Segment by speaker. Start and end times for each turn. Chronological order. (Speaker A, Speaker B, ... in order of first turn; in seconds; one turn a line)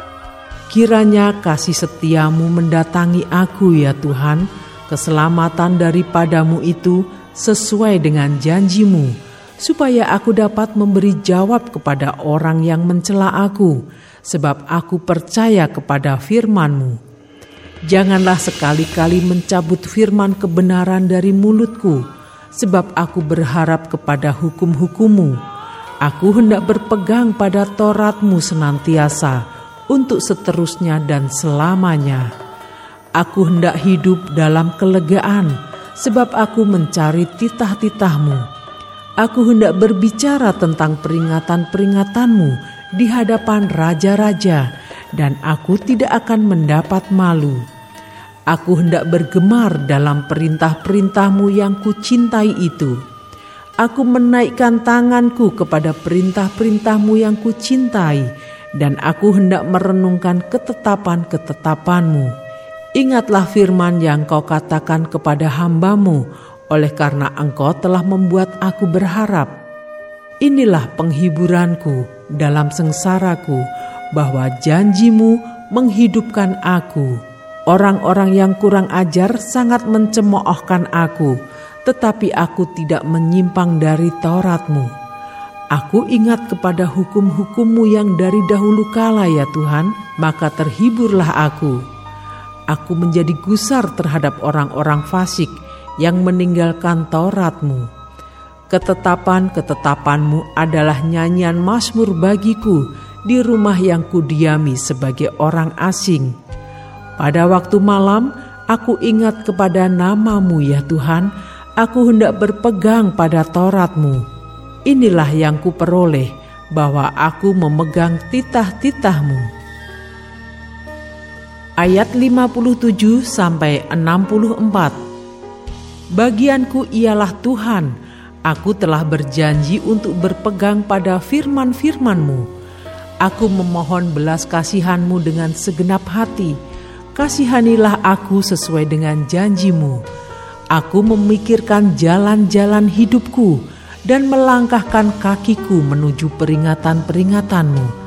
Speaker A: 0.7-17.0
Speaker A: 17.9-22.0
Speaker A: 22.5-25.4
Speaker A: 26.0-32.2
Speaker A: 33.2-38.4
Speaker A: 39.2-47.6
Speaker A: 48.5-53.0
Speaker A: 53.8-62.3
Speaker A: 62.9-69.5
Speaker A: 70.4-84.9
Speaker A: 85.7-91.8
Speaker A: 92.7-97.9
Speaker A: 98.7-106.3
Speaker A: 107.2-114.2
Speaker A: 114.9-119.5
Speaker A: 121.8-125.0
Speaker A: 126.1-127.9
Speaker A: 128.4-132.4
Speaker A: 133.2-136.5
Speaker A: 137.2-140.0
Speaker A: 140.7-147.9